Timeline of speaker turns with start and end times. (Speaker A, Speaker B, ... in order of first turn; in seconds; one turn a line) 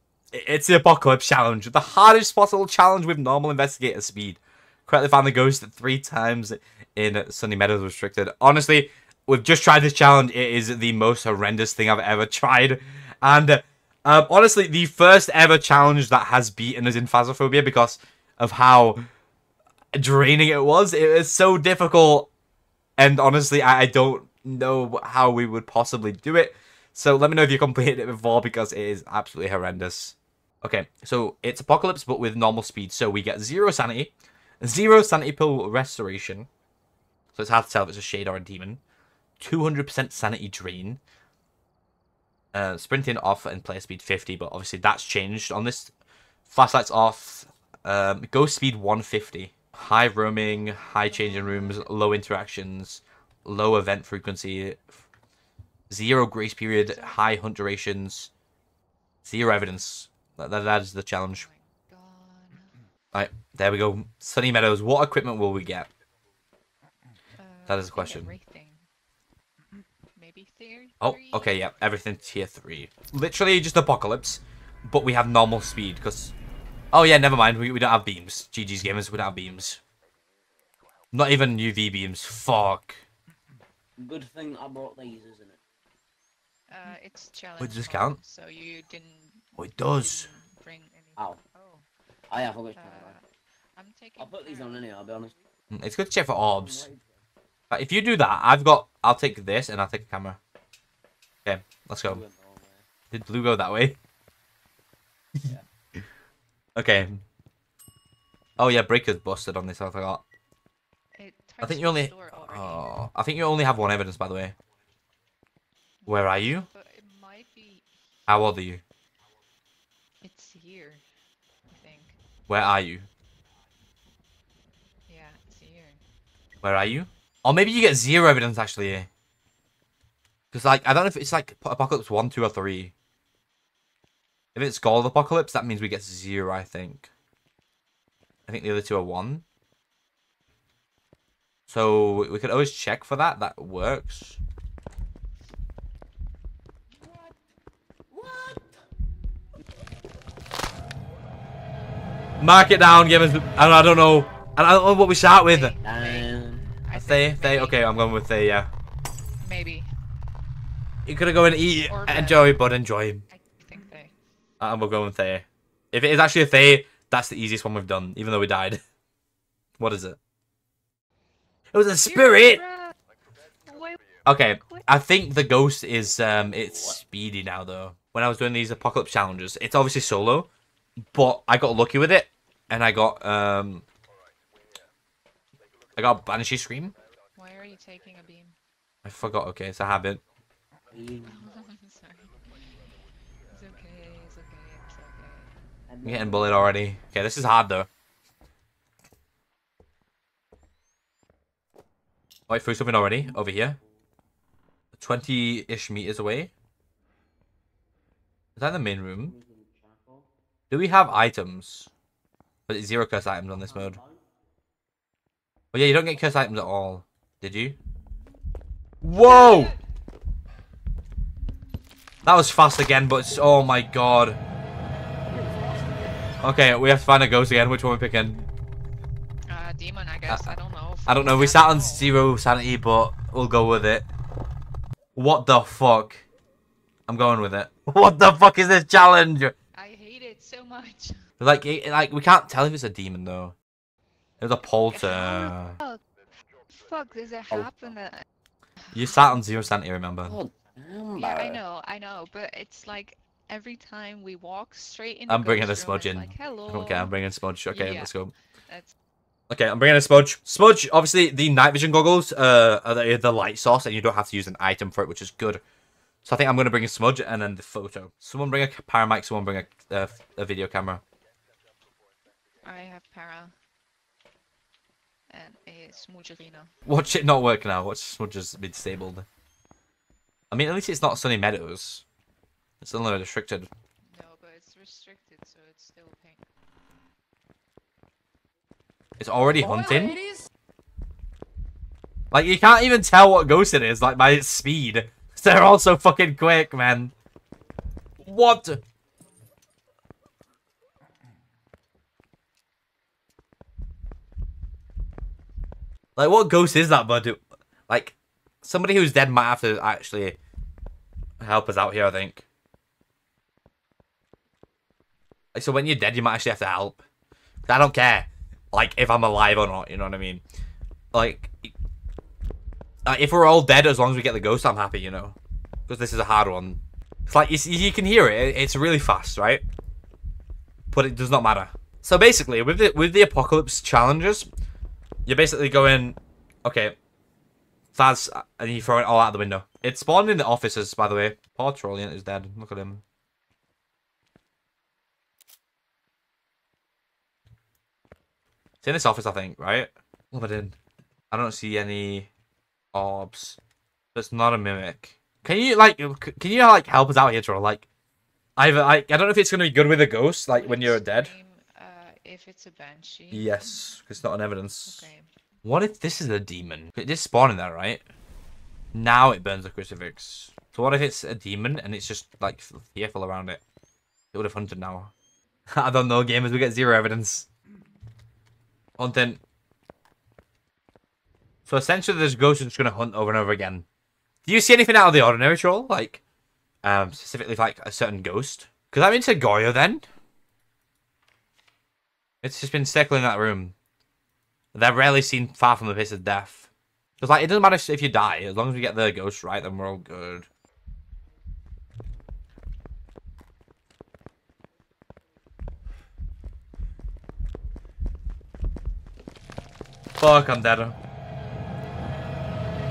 Speaker A: 0.3-19.1
Speaker A: 19.9-22.3
Speaker A: 23.0-36.5
Speaker A: 37.3-38.8
Speaker A: 39.4-41.0
Speaker A: 42.5-45.9
Speaker A: 46.5-55.0
Speaker B: 50.6-51.9
Speaker A: 55.9-58.3
Speaker B: 56.7-57.2
Speaker A: 59.2-61.5
Speaker B: 61.2-62.7
Speaker A: 63.1-65.9
Speaker B: 67.4-68.8
Speaker A: 67.7-68.3
Speaker B: 70.1-71.7
Speaker A: 71.0-76.3
Speaker A: 76.9-79.8
Speaker A: 81.1-83.0
Speaker C: 84.0-85.6
Speaker B: 86.7-91.9
Speaker A: 87.6-88.2
Speaker A: 89.6-90.3
Speaker C: 92.3-93.1
Speaker B: 92.7-95.5
Speaker C: 94.2-95.3
Speaker A: 95.7-96.9
Speaker C: 96.4-97.2
Speaker A: 97.7-100.4
Speaker A: 101.4-102.2
Speaker C: 102.0-102.8
Speaker A: 103.1-104.0
Speaker A: 106.8-107.2
Speaker A: 108.6-110.2
Speaker B: 111.2-112.9
Speaker A: 111.6-114.5
Speaker B: 116.0-117.9
Speaker A: 116.1-116.7
Speaker A: 118.3-118.8
Speaker B: 120.2-121.0
Speaker B: 121.7-122.2
Speaker A: 122.5-123.1
Speaker B: 125.1-126.0
Speaker A: 126.6-129.1
Speaker A: 130.5-132.9
Speaker A: 134.5-137.1
Speaker A: 138.5-139.4
Speaker A: 141.7-144.4
Speaker C: 148.1-148.8
Speaker A: 152.4-155.7
Speaker B: 155.4-157.9
Speaker C: 155.8-156.7
Speaker A: 156.9-158.7
Speaker B: 159.4-159.9
Speaker A: 161.1-163.2
Speaker B: 161.9-162.6
Speaker B: 163.3-164.1
Speaker A: 164.6-168.8
Speaker A: 169.8-170.2
Speaker A: 171.7-172.6
Speaker B: 172.1-172.9
Speaker B: 173.7-174.0
Speaker A: 174.2-180.5
Speaker B: 174.6-174.8
Speaker A: 181.1-183.8
Speaker A: 186.0-186.9
Speaker B: 187.3-188.6
Speaker A: 189.0-190.2
Speaker C: 190.9-191.4
Speaker B: 191.2-192.7
Speaker B: 193.5-195.5
Speaker C: 195.9-196.7
Speaker A: 196.0-197.9
Speaker A: 202.5-203.8
Speaker A: 204.9-206.5
Speaker A: 208.6-209.3
Speaker C: 209.2-210.3
Speaker A: 210.7-211.9
Speaker A: 212.7-214.0
Speaker C: 213.6-214.2
Speaker A: 215.7-217.8
Speaker A: 219.0-219.7
Speaker B: 219.2-219.8
Speaker A: 222.2-224.4
Speaker C: 225.2-226.3
Speaker A: 226.4-228.5
Speaker B: 229.5-232.2
Speaker A: 231.1-234.1
Speaker A: 235.1-236.2
Speaker A: 237.1-239.5
Speaker B: 239.7-241.2
Speaker A: 241.4-243.5
Speaker A: 244.4-245.8
Speaker B: 244.9-246.0
Speaker B: 246.7-248.2
Speaker B: 248.9-249.2
Speaker A: 248.9-250.4
Speaker C: 250.2-251.6
Speaker B: 251.2-257.2
Speaker A: 255.3-258.3
Speaker B: 257.7-258.1
Speaker B: 258.7-258.9
Speaker A: 259.5-265.6
Speaker A: 266.2-271.0
Speaker B: 272.6-273.5
Speaker B: 275.3-276.7
Speaker A: 276.9-279.2
Speaker A: 280.5-282.0
Speaker A: 282.8-283.7
Speaker B: 284.1-286.5
Speaker A: 289.2-290.2
Speaker A: 292.3-297.1
Speaker A: 298.2-298.8
Speaker A: 306.1-310.4
Speaker A: 311.4-312.4
Speaker A: 315.5-317.0
Speaker A: 317.7-320.4
Speaker A: 321.1-321.7
Speaker A: 323.0-325.4
Speaker A: 325.9-329.6
Speaker A: 330.9-334.5
Speaker A: 335.2-336.9
Speaker A: 337.9-343.0
Speaker A: 348.8-350.8
Speaker A: 351.3-352.3
Speaker A: 352.9-353.6
Speaker A: 354.1-357.9
Speaker A: 358.6-361.3
Speaker B: 360.5-363.6
Speaker A: 363.3-365.1
Speaker B: 364.8-365.3
Speaker A: 365.6-368.0
Speaker A: 368.9-373.6
Speaker A: 374.3-375.1
Speaker A: 375.7-377.5
Speaker A: 379.0-379.4
Speaker A: 381.6-383.9
Speaker A: 384.4-386.2
Speaker A: 386.8-390.0
Speaker A: 392.4-393.7
Speaker A: 394.7-400.5
Speaker A: 410.2-410.9